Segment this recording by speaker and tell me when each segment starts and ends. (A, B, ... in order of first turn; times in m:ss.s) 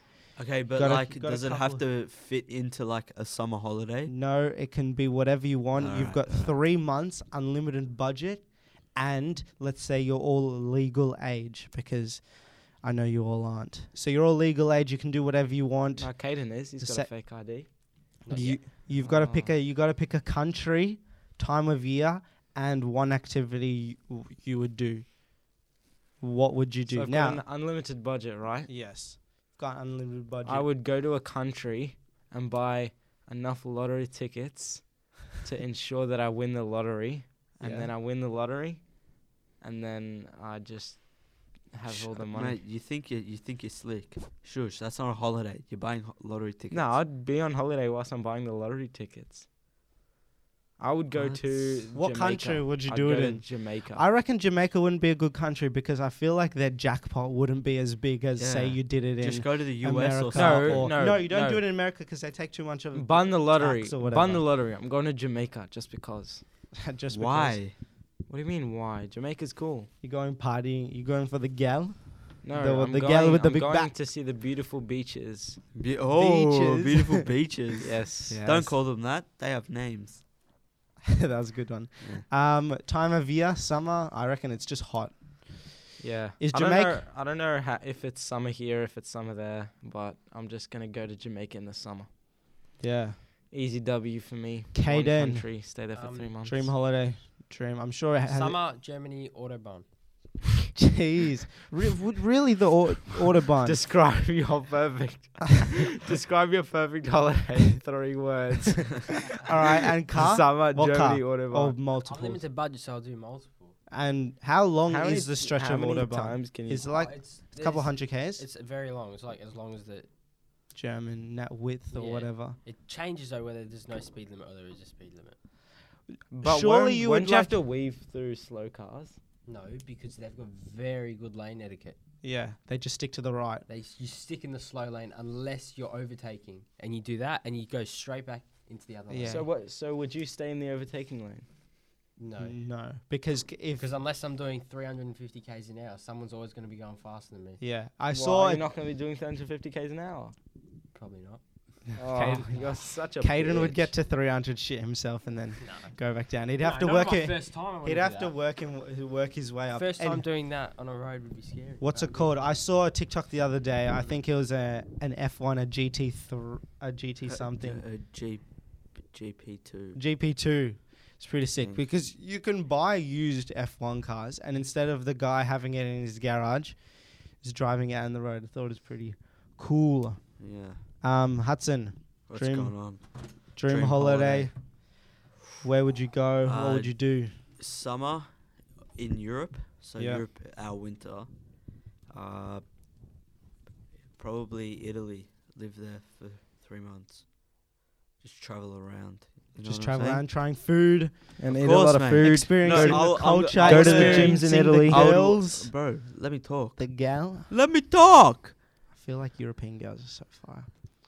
0:00.4-0:04.1 A
0:00.7-0:01.8 B
0:04.1-0:17.1 B
0:05.8-0:06.5 A
0:16.0-0:17.7 C
0:18.2-0:18.6 D
0:18.3-0:25.1 B
0:18.9-0:19.5 C
0:26.2-0:27.4 B
0:26.9-0:28.7 C
0:28.7-0:30.7 B
0:30.4-0:42.6 C
0:37.6-0:37.9 B
0:41.9-0:47.0 A
0:46.7-0:49.4 C
0:50.8-0:54.0 C
0:51.1-0:51.5 A
0:51.9-1:04.5 B
0:58.4-1:01.0 A
1:00.3-1:01.6 C
1:02.9-1:06.4 C
1:06.8-1:07.6 B
1:07.1-1:07.8 A
1:08.2-1:09.9 C
1:10.0-1:13.9 B
1:12.4-1:15.6 C
1:15.7-1:20.2 A
1:16.1-1:17.3 B
1:17.8-1:18.4 C
1:18.3-1:18.8 B
1:21.1-1:25.9 B
1:22.0-1:22.2 A
1:26.0-1:32.1 C
1:26.4-1:27.0 B
1:32.8-1:33.2 B
1:33.5-1:36.7 C
1:34.7-1:35.5 B
1:35.9-1:36.3 D
1:36.4-1:38.6 B
1:38.2-1:39.9 D
1:40.8-1:43.8 B
1:43.6-1:49.2 C
1:49.4-1:52.4 B
1:50.1-1:51.8 C
1:52.0-1:53.8 D
1:53.9-1:58.4 B
1:54.9-1:56.9 C
1:56.8-2:00.1 D
2:00.7-2:02.6 B
2:01.9-2:05.4 D
2:06.3-2:09.2 C
2:06.4-2:07.6 B
2:09.5-2:12.0 D
2:12.2-2:13.6 B
2:13.7-2:19.5 D
2:19.1-2:19.5 B
2:19.2-2:21.5 C
2:22.2-2:22.6 D
2:22.4-2:23.9 B
2:23.8-2:27.6 D
2:27.6-2:28.7 B
2:28.1-2:30.3 C
2:30.9-2:31.4 D
2:31.9-2:40.2 B
2:32.0-2:33.9 C
2:35.6-2:36.0 D
2:36.6-2:38.4 D
2:39.7-2:42.6 D
2:41.8-2:47.8 B
2:47.3-2:50.0 A
2:50.0-3:04.9 B
3:00.4-3:00.8 A
3:02.3-3:04.6 A
3:05.6-3:07.4 B
3:06.4-3:11.4 A
3:10.0-3:10.2 B
3:12.1-3:12.6 A
3:14.1-3:17.3 A
3:18.2-3:20.2 A
3:19.6-3:25.7 B
3:21.4-3:25.4 C
3:21.5-3:28.6 A
3:26.8-3:27.5 B
3:28.9-3:30.7 B